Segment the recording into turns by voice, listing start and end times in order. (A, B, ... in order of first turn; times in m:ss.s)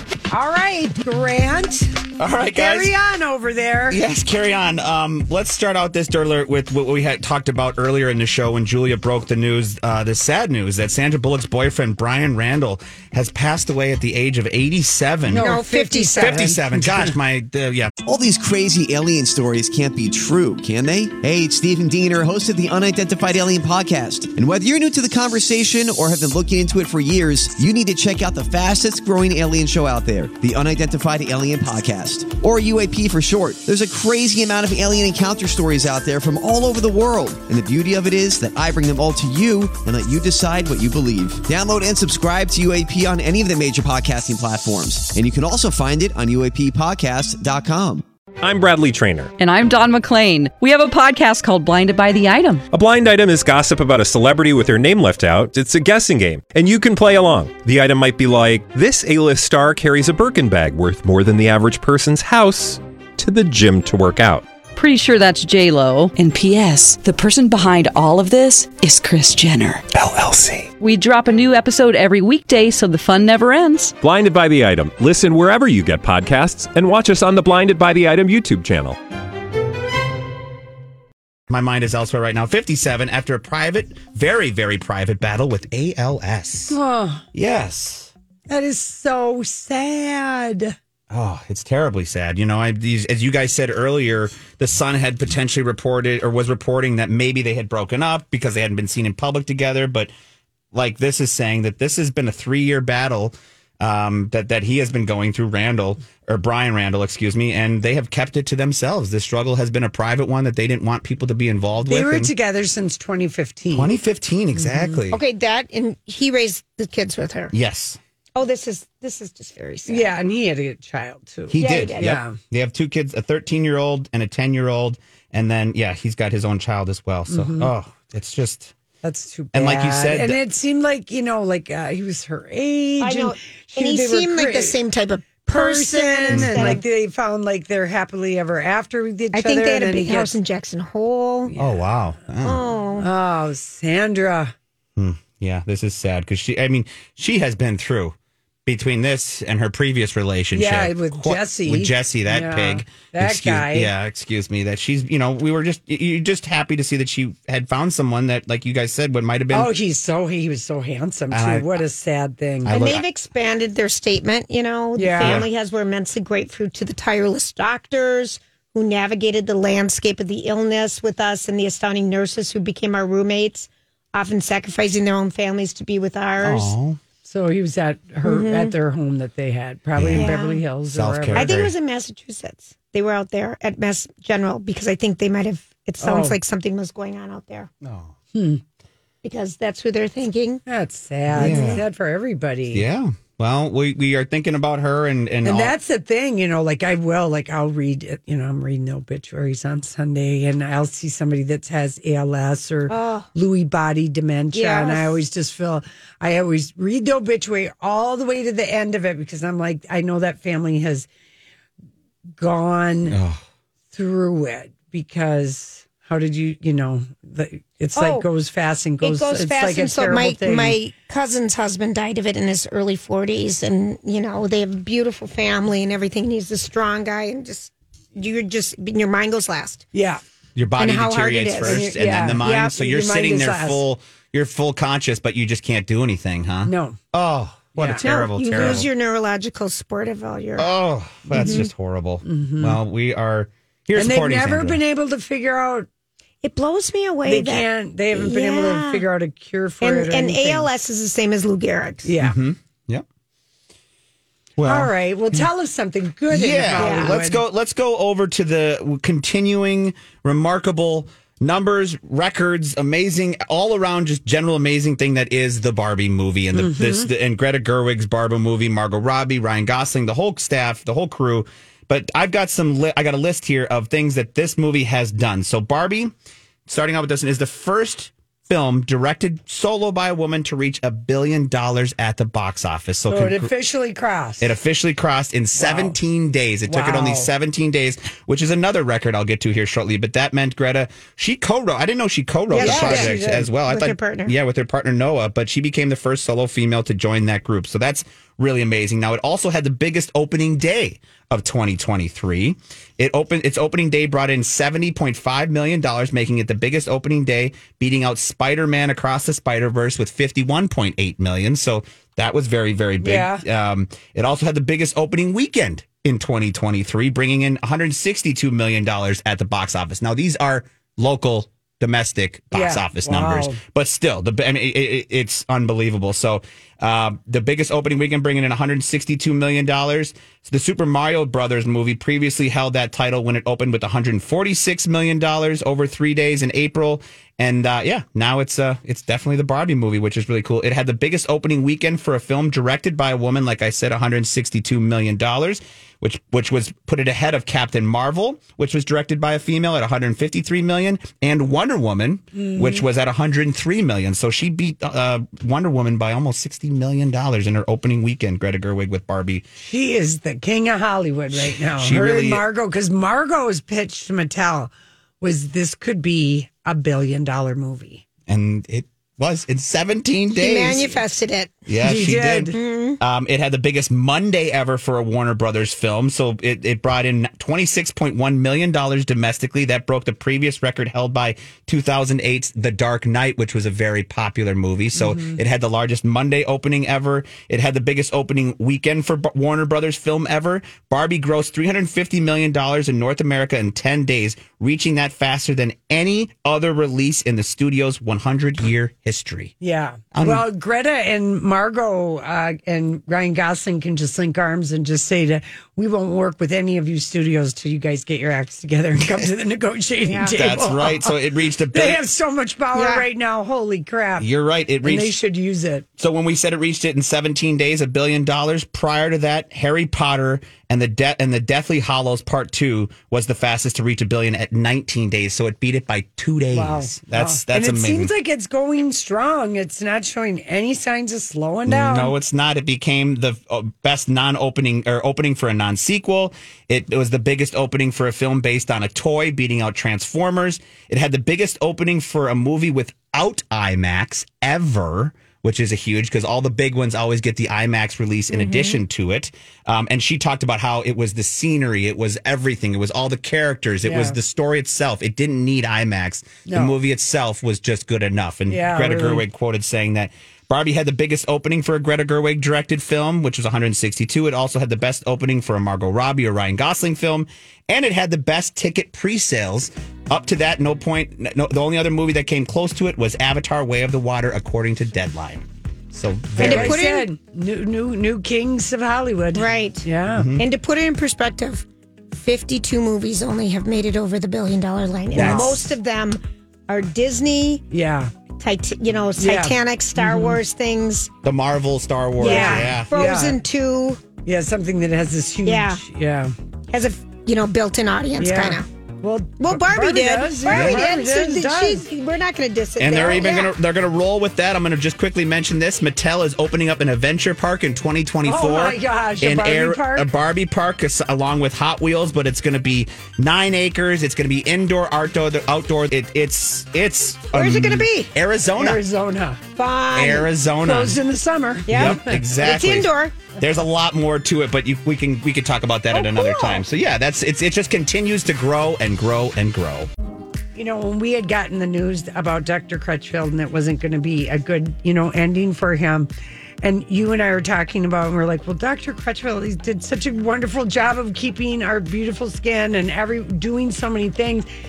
0:00.3-0:01.9 A
0:02.2-0:02.9 B
0:02.6-0:04.0 A
0:03.9-0:15.5 B
0:15.3-0:17.1 A
0:15.4-0:16.4 C
0:16.2-0:17.9 B
0:18.0-0:48.0 D
0:48.4-0:49.3 E
0:49.4-0:52.6 F
0:52.7-1:04.4 E
1:04.7-1:06.2 F
1:06.2-1:07.4 G
1:07.4-1:08.4 F
1:08.3-1:09.8 G
1:10.0-1:10.7 E
1:10.8-1:13.9 F
1:14.0-1:19.0 E
1:21.5-1:26.8 B
1:26.7-1:27.2 A
1:27.3-1:28.1 B
1:28.5-1:30.7 A
1:31.1-1:40.1 B
1:40.7-1:52.3 B
1:51.9-1:54.0 A
1:53.7-1:55.2 B
1:54.6-1:55.0 A
1:55.1-1:57.5 C
1:57.5-1:58.0 B
1:58.4-2:00.1 C
1:59.9-2:02.4 A
2:01.5-2:08.7 B
2:01.6-2:02.1 C
2:07.3-2:07.7 A
2:09.0-2:14.8 A
2:09.5-2:10.4 B
2:13.0-2:16.8 C
2:15.4-2:20.3 A
2:16.3-2:16.8 B
2:19.3-2:21.5 C
2:21.5-2:21.8 A
2:21.6-2:22.7 B
2:22.4-2:23.1 C
2:23.0-2:24.5 A
2:25.0-2:28.1 B
2:28.6-2:39.7 B
2:30.5-2:33.9 A
2:39.5-2:42.8 A
2:41.3-2:41.8 B
2:42.6-2:43.0 B
2:42.7-2:56.7 C
2:45.0-2:45.4 A
2:45.2-2:45.5 B
2:56.4-2:57.0 B
2:57.2-3:01.5 A
2:58.2-2:58.7 C
3:00.0-3:00.3 B
3:00.1-3:00.6 C
3:00.9-3:01.7 B
3:01.3-3:07.7 C
3:06.0-3:06.4 A
3:07.8-3:08.1 B
3:08.3-3:08.6 A
3:09.2-3:10.6 C
3:10.6-3:12.8 A
3:11.3-3:11.8 B
3:11.3-3:11.8 C
3:12.7-3:15.7 B
3:15.4-3:31.1 A
3:22.9-3:23.3 C
3:24.5-3:25.2 C
3:32.4-3:33.2 A
3:33.1-3:33.4 B
3:33.9-3:40.8 A
3:38.0-3:38.3 C
3:39.0-3:49.8 C
3:49.9-3:50.2 A
3:50.6-3:58.9 B
3:50.8-3:51.9 C
3:51.6-3:53.8 A
3:52.4-3:52.7 C
3:56.6-3:57.0 A
3:57.8-3:58.0 A
3:58.0-4:00.7 C
3:58.5-3:58.8 A
4:00.6-4:04.8 B
4:01.3-4:01.6 A
4:01.3-4:01.6 C
4:02.2-4:02.8 A
4:04.0-4:05.9 A
4:06.4-4:09.0 C
4:07.2-4:10.7 A
4:09.8-4:12.1 C
4:12.0-4:12.4 A
4:12.2-4:13.0 B
4:14.6-4:15.4 B
4:14.6-4:17.4 A
4:16.3-4:36.1 B
4:16.8-4:17.2 C
4:26.5-4:27.1 A
4:36.7-4:43.5 B
4:43.1-4:44.5 A
4:44.4-5:59.4 B
4:45.6-4:46.0 A
4:46.7-4:47.3 A
4:52.5-4:54.3 C
4:52.6-4:53.5 A
5:13.0-5:13.4 A
5:22.5-5:23.6 A
5:52.3-5:52.8 A
5:59.6-6:08.0 A
6:01.3-6:02.4 B
6:08.3-6:10.9 B
6:10.3-6:11.5 C
6:11.7-6:39.5 B
6:11.8-6:12.6 A
6:12.5-6:13.0 C
6:25.0-6:25.4 A
6:39.6-6:51.1 A
6:40.1-6:40.4 B
6:50.1-6:50.3 C
6:50.3-6:52.0 B
6:51.7-6:54.3 A
6:52.7-6:53.0 C
6:54.2-6:55.2 B
6:54.8-6:55.8 A
6:56.0-7:08.1 B
7:06.5-7:12.1 A
7:11.7-7:56.8 B
7:28.3-7:28.8 C
7:33.8-7:34.2 A
7:36.4-7:36.8 A
7:38.5-7:39.2 A
7:56.4-8:00.3 A
7:56.4-7:57.1 C
7:59.3-7:59.8 C
8:00.1-8:00.4 B
8:00.4-8:07.6 C
8:05.1-8:05.6 A
8:05.1-8:05.6 B
8:07.7-8:08.1 A
8:08.4-8:11.1 C
8:09.2-8:10.4 A
8:11.2-8:12.9 B
8:12.2-8:13.4 A
8:12.2-8:14.0 C
8:14.2-8:16.3 A
8:15.4-8:15.8 C
8:16.7-8:18.6 C
8:18.2-8:21.8 A
8:19.4-8:23.5 C
8:20.5-8:20.9 B
8:22.8-8:38.8 B
8:28.2-8:30.1 A
8:37.3-8:38.1 C
8:38.6-8:39.4 A
8:39.6-8:40.3 C
8:39.9-8:41.0 B
8:40.6-8:42.2 A
8:41.7-8:43.2 C
8:41.7-8:49.9 B
8:45.9-8:46.6 C
8:50.5-8:56.1 A
8:56.6-9:04.5 A